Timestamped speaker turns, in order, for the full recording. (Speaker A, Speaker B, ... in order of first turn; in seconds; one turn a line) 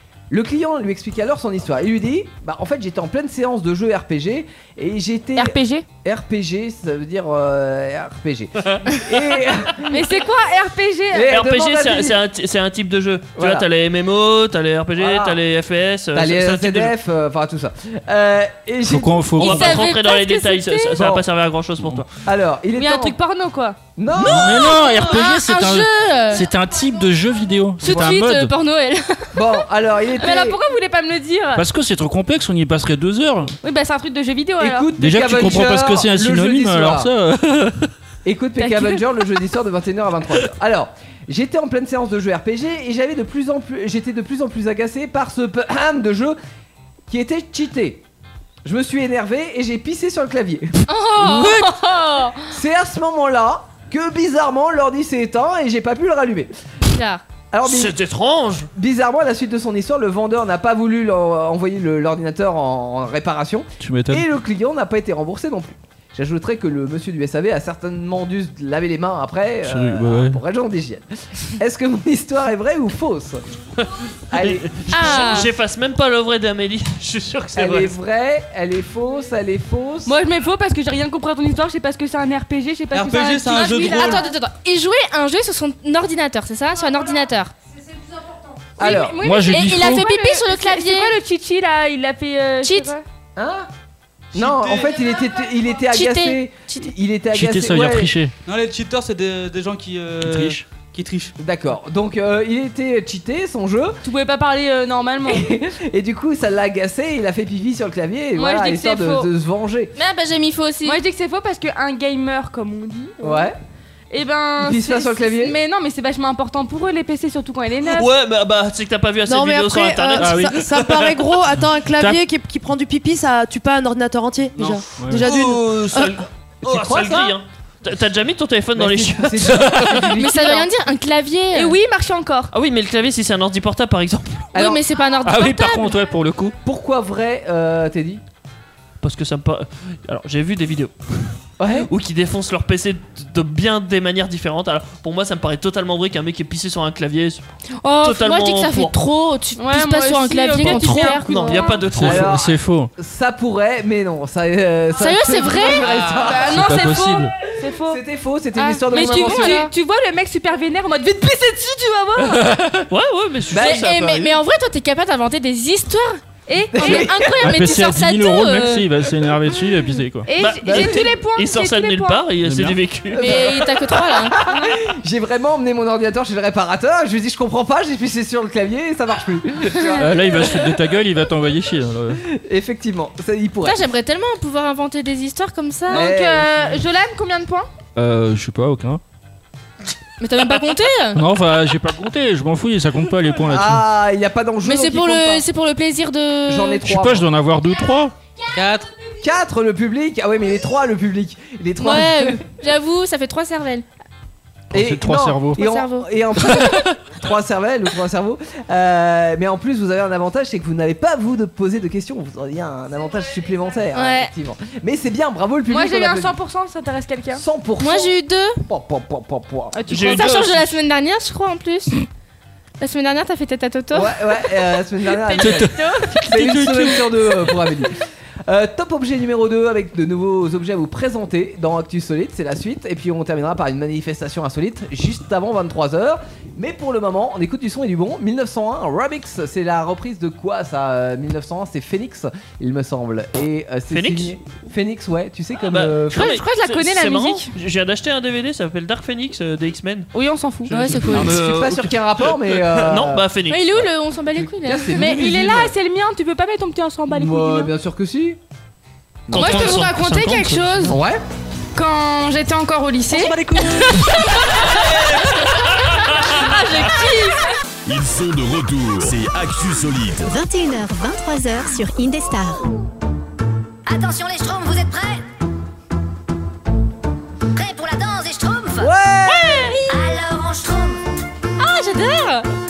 Speaker A: 0.3-10.1
Speaker B: 5.4-5.8
Speaker C: 9.9-11.4
Speaker A: 11.1-12.2
Speaker D: 11.3-16.9
Speaker A: 13.3-13.7
Speaker A: 15.0-15.4
Speaker A: 16.1-19.5
Speaker E: 18.8-19.8
Speaker D: 19.4-22.0
Speaker B: 19.4-20.9
Speaker A: 20.9-21.2
Speaker A: 22.2-23.1
Speaker C: 22.7-23.8
Speaker A: 23.9-24.8
Speaker E: 24.2-28.5
Speaker B: 24.2-26.4
Speaker B: 27.8-29.4
Speaker A: 29.3-30.6
Speaker C: 30.1-31.6
Speaker E: 31.6-33.5
Speaker C: 33.6-34.9
Speaker A: 34.6-37.1
Speaker E: 35.0-37.9
Speaker A: 38.2-46.4
Speaker C: 38.6-39.0
Speaker A: 47.1-48.0
Speaker A: 48.6-51.7
Speaker B: 50.9-52.4
Speaker A: 52.5-56.5
Speaker B: 56.9-57.2
Speaker A: 57.5-57.9
Speaker D: 57.6-58.7
Speaker A: 58.7-73.4
Speaker E: 63.8-64.2
Speaker E: 69.7-70.4
Speaker D: 73.8-77.9
Speaker A: 74.3-75.4
Speaker B: 74.9-75.5
Speaker A: 77.5-80.2
Speaker C: 80.0-84.2
Speaker F: 82.9-84.2
Speaker B: 83.6-87.5
Speaker C: 88.8-93.0
Speaker A: 88.8-89.2
Speaker E: 89.2-90.0
Speaker B: 89.5-91.2
Speaker B: 92.6-92.9
Speaker A: 93.3-93.7
Speaker F: 94.3-94.9
Speaker A: 94.3-98.1
Speaker B: 95.9-96.9
Speaker E: 97.3-98.3
Speaker F: 98.5-101.3
Speaker E: 100.2-100.6
Speaker A: 101.4-104.0
Speaker C: 104.0-105.5
Speaker A: 105.2-109.9
Speaker C: 108.3-109.3
Speaker B: 110.0-111.0
Speaker C: 110.8-113.5
Speaker A: 113.2-113.5
Speaker C: 114.1-118.1
Speaker A: 114.6-115.5
Speaker D: 117.8-121.2
Speaker G: 119.2-126.2
Speaker E: 120.2-121.0
Speaker E: 121.8-122.2
Speaker E: 124.5-125.3
Speaker D: 125.2-129.9
Speaker A: 126.6-127.3
Speaker A: 128.7-130.7
Speaker B: 130.1-131.8
Speaker C: 131.5-132.5
Speaker D: 132.5-134.5
Speaker A: 134.5-134.8
Speaker B: 134.5-136.0
Speaker E: 135.2-136.6
Speaker A: 136.6-138.2
Speaker D: 139.0-147.4
Speaker A: 141.6-141.9
Speaker B: 147.8-151.7
Speaker D: 148.0-148.9
Speaker C: 149.6-151.9
Speaker D: 150.6-152.3
Speaker E: 151.9-152.9
Speaker A: 152.0-156.7
Speaker B: 155.0-155.9
Speaker C: 155.7-158.0
Speaker E: 156.4-157.3
Speaker A: 157.8-159.7
Speaker B: 158.6-159.7
Speaker C: 158.8-162.5
Speaker E: 162.2-162.9
Speaker D: 162.9-164.3
Speaker A: 163.5-164.0
Speaker B: 163.5-166.2
Speaker C: 166.5-167.4
Speaker A: 166.7-167.4
Speaker B: 166.7-168.8
Speaker E: 167.4-170.3
Speaker C: 170.2-172.3
Speaker D: 170.4-173.4
Speaker A: 170.6-171.2
Speaker E: 172.4-172.8
Speaker A: 173.1-180.7
Speaker B: 173.2-174.5
Speaker E: 180.0-182.2
Speaker A: 182.2-183.8
Speaker B: 183.6-186.1
Speaker C: 185.9-187.7
Speaker A: 185.9-186.7
Speaker E: 187.9-189.0
Speaker B: 190.2-191.2
Speaker E: 191.1-193.8
Speaker A: 193.5-195.4
Speaker B: 194.6-196.8
Speaker A: 196.5-197.3
Speaker E: 196.8-198.1
Speaker F: 198.6-198.8
Speaker A: 199.2-202.4
Speaker B: 201.8-203.8
Speaker E: 204.7-205.6
Speaker A: 204.7-216.3
Speaker B: 205.6-206.1
Speaker B: 213.9-214.3
Speaker C: 215.7-217.4
Speaker A: 217.3-218.1
Speaker B: 217.8-218.6
Speaker A: 218.6-219.7
Speaker B: 219.7-222.0
Speaker D: 219.9-220.7
Speaker B: 222.8-224.3
Speaker A: 223.9-225.7
Speaker B: 225.1-226.1
Speaker E: 225.4-227.4
Speaker A: 226.3-227.9
Speaker A: 228.4-246.3
Speaker D: 243.9-244.3
Speaker D: 245.7-250.1
Speaker C: 246.1-247.5
Speaker C: 250.1-250.9
Speaker B: 250.7-251.3
Speaker D: 250.7-253.9
Speaker A: 251.1-253.2
Speaker B: 253.5-255.0
Speaker A: 254.3-255.7
Speaker C: 254.9-257.7
Speaker A: 257.1-258.4
Speaker A: 259.3-259.7
Speaker C: 259.3-260.9
Speaker D: 259.3-260.9
Speaker A: 260.9-261.2
Speaker C: 261.7-267.6
Speaker H: 267.9-270.3
Speaker I: 270.3-272.6
Speaker J: 273.9-275.2
Speaker J: 277.5-278.9
Speaker A: 278.8-279.8
Speaker B: 279.3-279.9
Speaker J: 279.9-281.0
Speaker B: 281.6-282.5